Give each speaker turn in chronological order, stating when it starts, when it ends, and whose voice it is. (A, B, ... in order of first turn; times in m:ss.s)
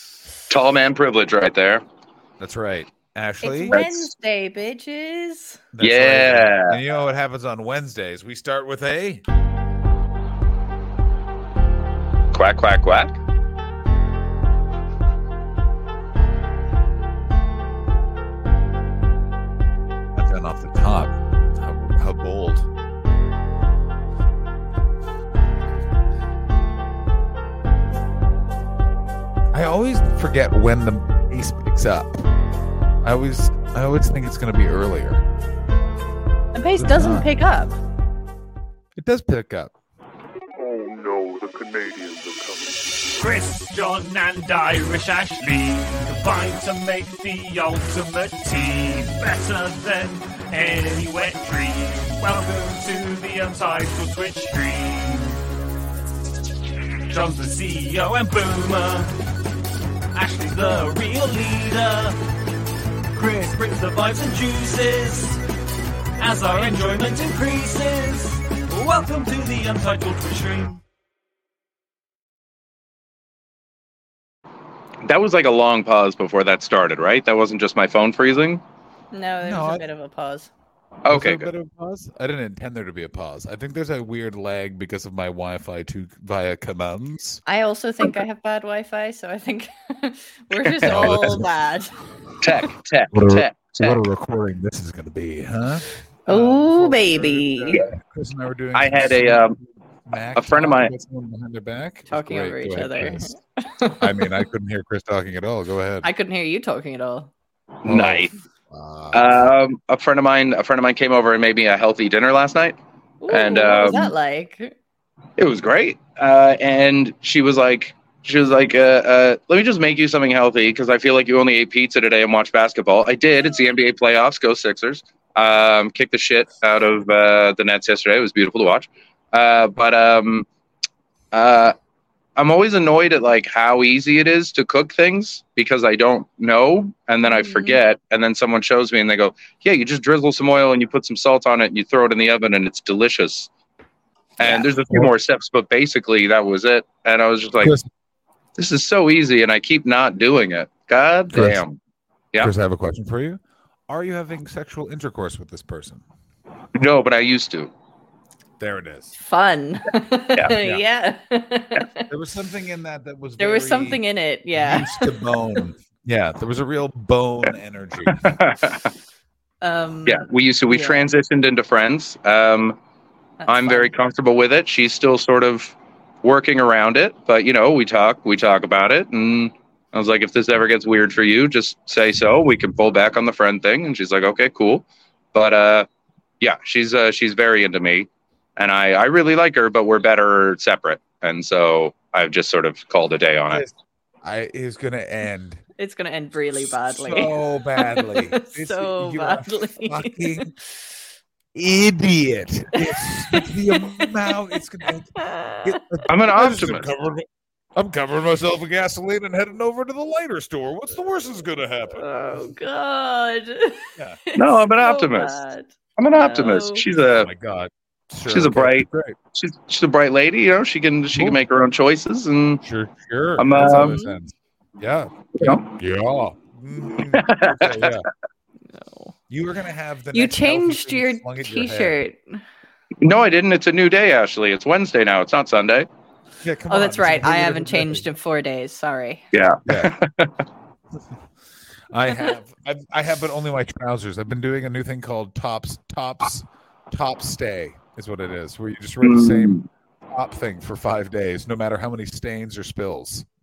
0:00.5-0:01.8 A
0:02.4-0:03.9 B
0:03.4-0:05.6 C
0:03.7-0:04.0 A
0:05.7-0:09.2 B
0:05.8-0:06.8 A
0:12.3-0:13.2 A
0:20.2-0:22.7 B
0:29.5-0:32.2 B
0:33.0-0:35.2 B
0:36.5-0:37.8 C
0:36.8-0:37.2 B
0:39.0-0:39.7 B
0:40.6-0:42.8 D
0:43.1-0:55.4 E
0:57.1-0:59.2 E
1:00.1-1:02.2 E
1:03.1-1:05.4 E
1:06.2-1:10.8 E
1:15.0-1:18.6 A
1:19.1-1:20.5 C
1:19.4-1:19.8 B
1:21.0-1:21.5 A
1:21.1-1:27.4 B
1:27.5-1:32.0 C
1:30.6-1:31.3 A
1:30.8-1:31.5 B
1:32.4-1:34.0 A
1:33.1-1:39.5 B
1:36.3-1:37.8 C
1:38.7-1:39.6 A
1:40.1-1:43.3 B
1:40.3-1:40.9 A
1:42.1-1:44.4 C
1:44.0-1:46.1 B
1:46.0-1:47.3 C
1:47.8-1:48.3 A
1:47.9-1:49.4 B
1:49.1-1:54.1 A
1:53.2-1:54.7 C
1:55.4-2:10.5 A
2:11.3-2:11.8 A
2:12.4-2:23.5 A
2:17.2-2:17.8 C
2:24.4-2:27.8 A
2:24.4-2:25.1 B
2:27.6-2:27.9 B
2:28.6-2:31.8 A
2:31.3-2:31.6 B
2:32.4-2:36.0 B
2:36.8-2:37.7 A
2:38.6-2:39.2 B
2:39.2-2:42.1 C
2:40.5-2:40.8 B
2:42.1-2:44.0 B
2:43.4-2:45.2 C
2:44.5-2:48.4 B
2:48.1-2:48.9 A
2:49.6-2:51.1 C
2:50.1-2:52.8 A
2:53.4-2:53.9 C
2:53.5-3:05.9 A
3:06.4-3:13.6 A
3:13.5-3:15.6 B
3:15.8-3:20.5 C
3:16.6-3:20.5 B
3:21.6-3:32.0 B
3:22.8-3:24.4 C
3:25.2-3:25.8 C
3:26.1-3:26.9 A
3:32.0-3:36.9 C
3:34.4-3:35.4 A
3:36.0-3:37.3 A
3:37.0-3:39.2 B
3:38.3-3:42.6 A
3:41.1-3:41.4 B
3:42.6-3:48.1 B
3:43.4-3:44.1 A
3:43.8-3:44.0 C
3:45.4-3:45.7 A
3:47.1-3:48.0 A
3:48.7-3:49.1 C
3:49.3-3:52.0 B
3:50.1-3:52.4 C
3:53.0-3:55.9 A
3:56.4-3:58.0 B
3:56.7-3:59.3 C
3:59.3-4:00.4 A
3:59.7-4:00.0 B
4:01.9-4:13.2 B
4:09.0-4:09.7 A